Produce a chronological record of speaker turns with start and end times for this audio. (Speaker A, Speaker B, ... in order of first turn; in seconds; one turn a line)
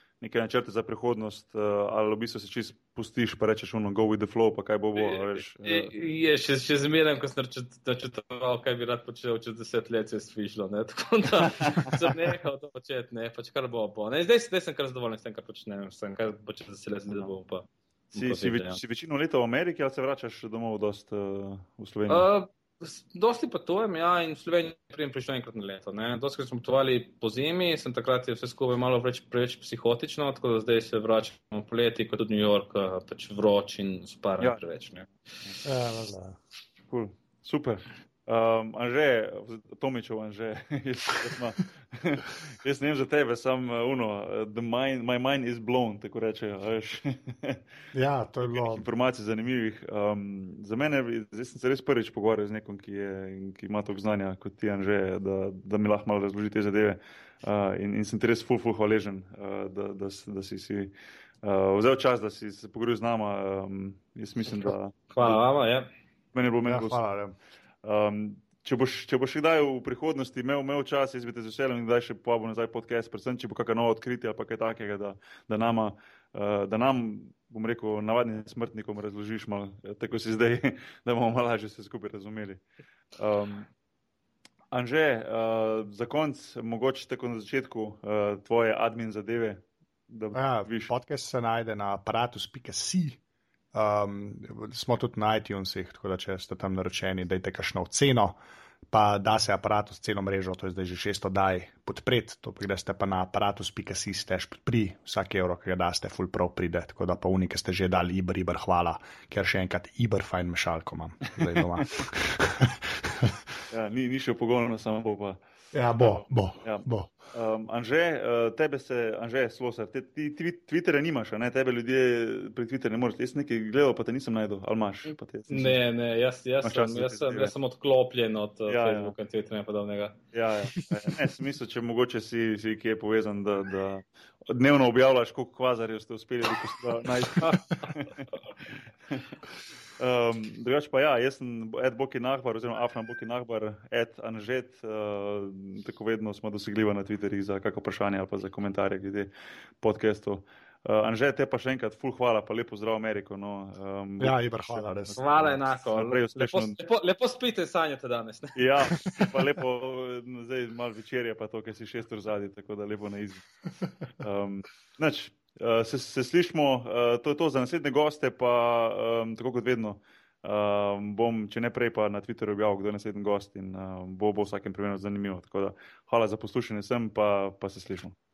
Speaker A: 0.2-5.9
Speaker B: 5.0-18.8
Speaker A: 11.6-12.1
Speaker A: 17.1-17.3
Speaker A: 18.1-22.3
Speaker B: 22.1-35.1
Speaker C: 35.6-36.4
Speaker A: 36.9-47.6
Speaker C: 47.9-48.9
Speaker A: 48.4-65.4
Speaker B: 65.1-65.9
Speaker A: 66.3-67.0
Speaker C: 66.7-67.3
Speaker A: 67.8-82.6
Speaker A: 83.2-83.7
Speaker A: 84.7-90.9
Speaker C: 90.3-93.2
Speaker C: 93.7-98.4
Speaker C: 98.9-113.4
Speaker A: 111.3-111.8
Speaker A: 113.7-115.4
Speaker C: 115.7-117.1
Speaker A: 116.0-125.8
Speaker B: 125.5-130.2
Speaker A: 126.6-127.5
Speaker A: 128.7-129.2
Speaker A: 130.3-139.4
Speaker A: 140.0-149.3
Speaker A: 149.8-156.8
Speaker C: 154.2-155.6
Speaker B: 155.2-158.6
Speaker A: 158.6-163.5
Speaker A: 164.2-178.2